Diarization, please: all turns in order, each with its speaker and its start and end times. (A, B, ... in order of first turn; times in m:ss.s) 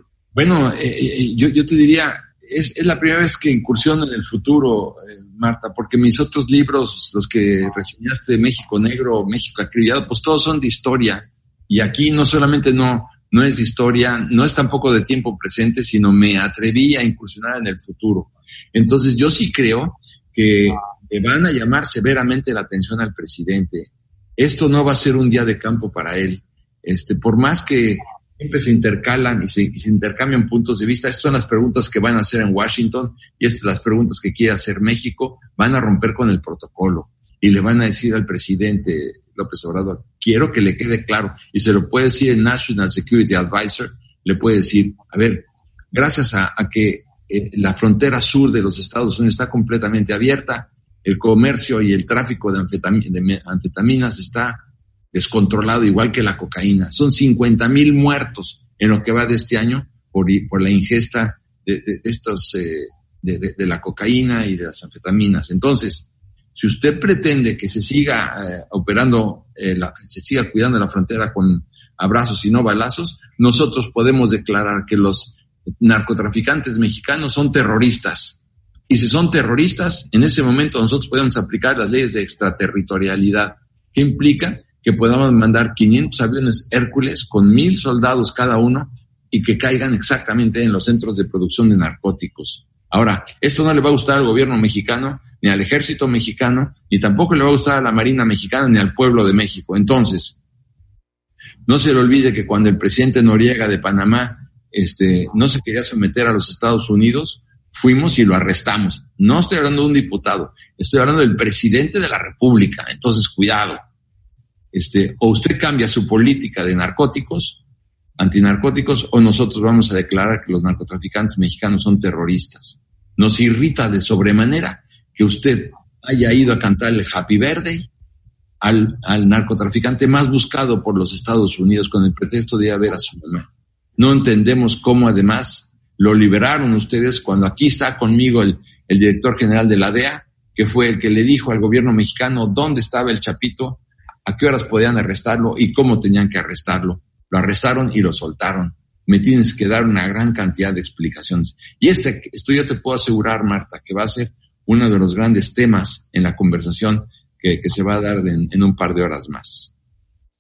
0:00.3-1:40.4 A
1:41.7-1:53.9 A
1:54.7-1:57.6 A
1:58.2-2:07.9 A
2:08.6-2:39.7 A